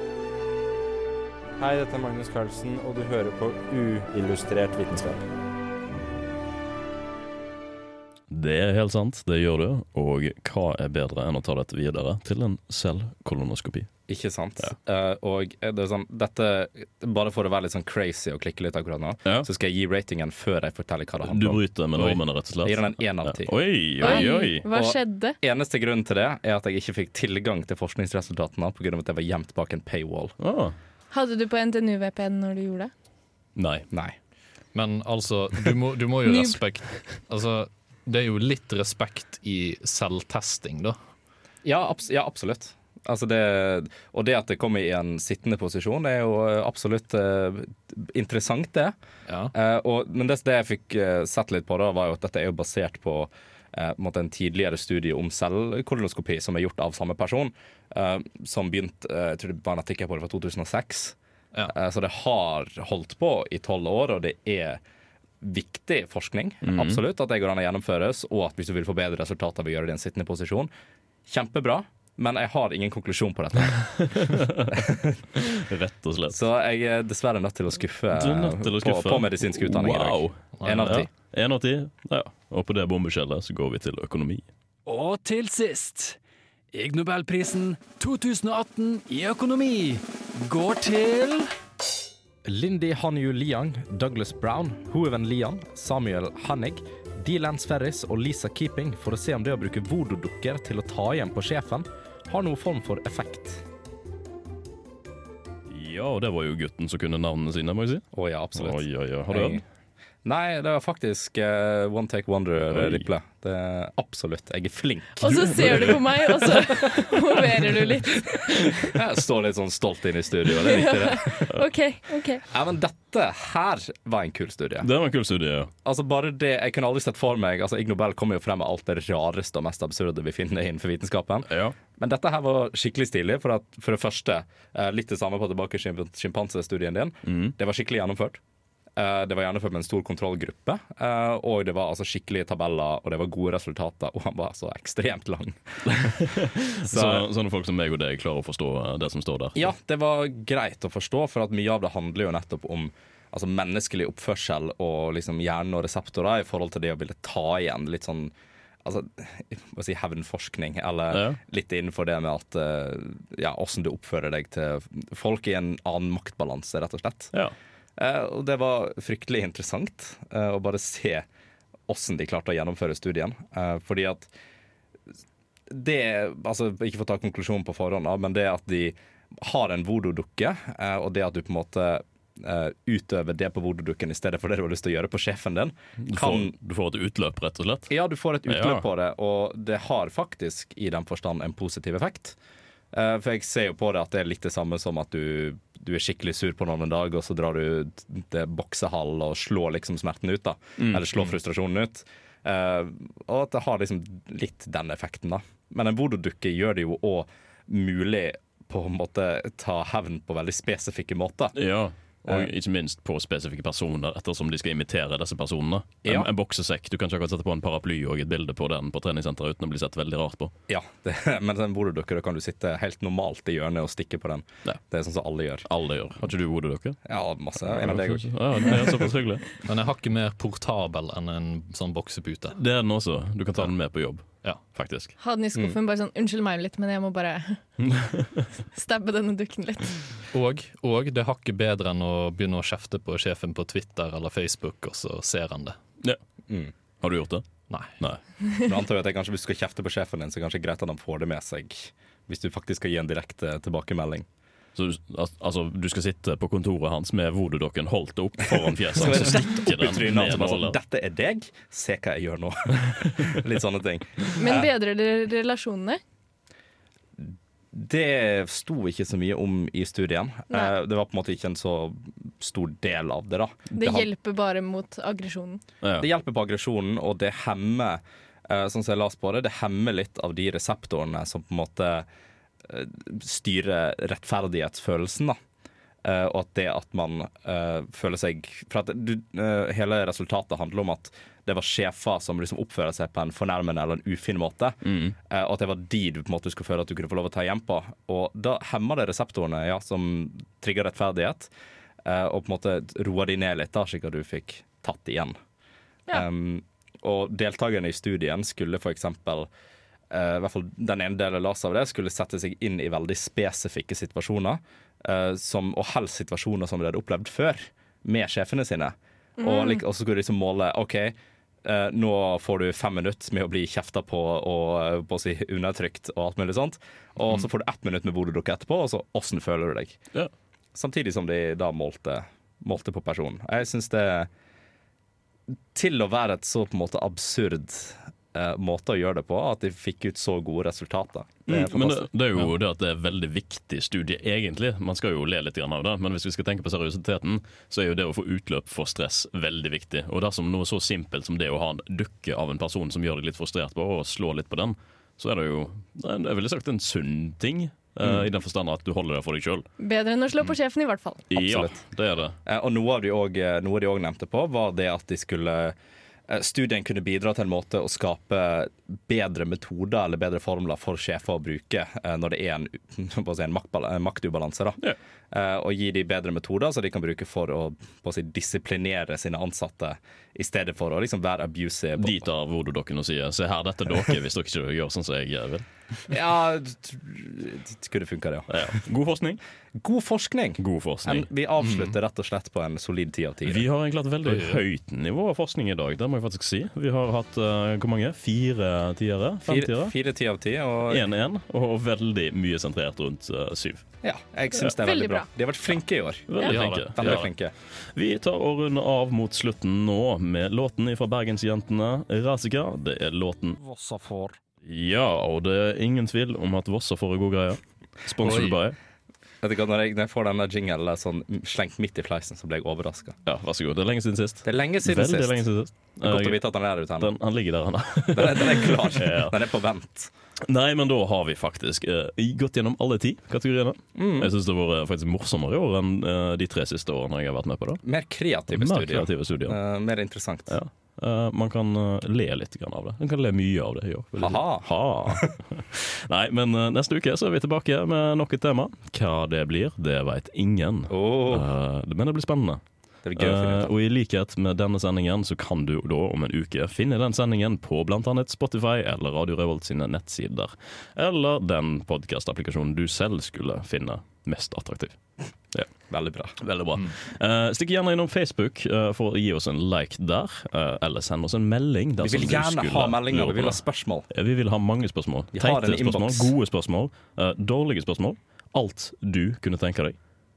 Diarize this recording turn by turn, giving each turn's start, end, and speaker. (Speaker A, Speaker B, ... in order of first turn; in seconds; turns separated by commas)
Speaker A: 1.6-5.1, Speaker B: 1.7-5.1, Speaker C: 8.3-13.9, Speaker B: 14.1-30.3, Speaker C: 21.2-24.6, Speaker D: 24.0-25.4, Speaker C: 30.4-30.8, Speaker D: 31.1-32.9, Speaker C: 33.5-33.9, Speaker B: 33.9-34.1, Speaker E: 34.7-41.0, Speaker D: 36.2-36.6, Speaker B: 41.6-48.9, Speaker E: 49.3-49.5, Speaker B: 49.5-61.1, Speaker B: 61.7-64.8, Speaker B: 65.4-70.7, Speaker C: 66.6-67.0, Speaker B: 71.3-73.8, Speaker C: 73.8-74.8, Speaker B: 74.7-75.2, Speaker C: 75.3-76.4, Speaker B: 76.3-81.1, Speaker C: 78.1-84.4, Speaker E: 80.6-81.1, Speaker F: 84.8-86.2, Speaker F: 86.7-91.5, Speaker B: 92.4-103.6, Speaker C: 105.7-109.6, Speaker B: 108.1-109.6, Speaker B: 110.2-115.9, Speaker C: 112.7-113.0, Speaker D: 115.2-118.8, Speaker C: 115.2-116.5, Speaker B: 118.9-121.5, Speaker D: 120.6-122.4, Speaker B: 122.5-124.9, Speaker C: 124.8-125.7, Speaker B: 125.8-138.4, Speaker C: 131.5-131.8, Speaker C: 137.2-137.5, Speaker B: 139.0-146.1, Speaker C: 145.9-149.7, Speaker B: 146.8-147.2, Speaker B: 149.6-158.3, Speaker B: 158.8-167.3, Speaker C: 161.1-161.4, Speaker B: 168.0-171.2, Speaker B: 171.9-174.3, Speaker B: 175.7-186.5, Speaker C: 186.0-187.9, Speaker B: 187.9-192.4, Speaker C: 188.4-188.8, Speaker B: 192.9-211.6, Speaker C: 200.8-201.0, Speaker C: 211.5-220.5, Speaker B: 220.7-225.6, Speaker C: 225.7-227.0, Speaker B: 227.1-228.8, Speaker C: 227.6-229.5, Speaker E: 229.7-232.6, Speaker C: 232.6-235.1, Speaker D: 235.2-237.6, Speaker C: 237.8-238.4, Speaker D: 238.7-240.0, Speaker E: 240.3-245.8, Speaker C: 247.0-247.4, Speaker B: 248.6-254.2, Speaker C: 254.8-260.8, Speaker B: 258.9-264.7, Speaker D: 264.4-266.0, Speaker B: 267.2-274.1, Speaker D: 273.7-275.6, Speaker C: 275.8-276.1, Speaker B: 276.0-282.1, Speaker B: 282.7-285.4, Speaker B: 286.0-301.5, Speaker C: 294.8-295.1, Speaker B: 302.0-305.4, Speaker B: 306.1-309.5, Speaker B: 310.1-330.0, Speaker D: 319.4-319.8, Speaker B: 330.7-334.3, Speaker B: 335.7-342.1, Speaker C: 341.5-359.7, Speaker D: 359.8-361.2, Speaker C: 361.3-362.4, Speaker B: 361.3-361.8, Speaker B: 362.4-365.7, Speaker B: 366.3-374.8, Speaker B: 375.3-382.3, Speaker C: 382.0-385.6, Speaker B: 386.1-388.5, Speaker C: 388.5-389.4, Speaker B: 389.8-393.6, Speaker C: 390.6-391.3, Speaker E: 391.6-391.9, Speaker C: 393.4-399.9, Speaker E: 394.2-394.6, Speaker B: 399.4-401.0, Speaker C: 400.9-403.9, Speaker B: 404.0-407.5, Speaker D: 404.8-405.3, Speaker C: 406.3-407.3, Speaker E: 406.4-407.3, Speaker C: 407.9-413.6, Speaker B: 413.6-414.3, Speaker C: 414.6-418.8, Speaker E: 418.2-418.6, Speaker B: 419.4-423.1, Speaker C: 423.2-426.4, Speaker B: 424.4-425.4, Speaker B: 426.0-427.1, Speaker C: 427.0-429.3, Speaker B: 428.1-430.1, Speaker C: 430.4-437.8, Speaker B: 434.0-434.3, Speaker B: 437.8-440.6, Speaker C: 438.5-439.6, Speaker C: 440.5-452.6, Speaker B: 444.2-445.3, Speaker B: 450.9-451.4, Speaker B: 453.0-453.7, Speaker C: 453.1-465.0, Speaker B: 465.9-466.3, Speaker C: 466.4-479.9, Speaker B: 472.0-474.1, Speaker B: 475.3-476.3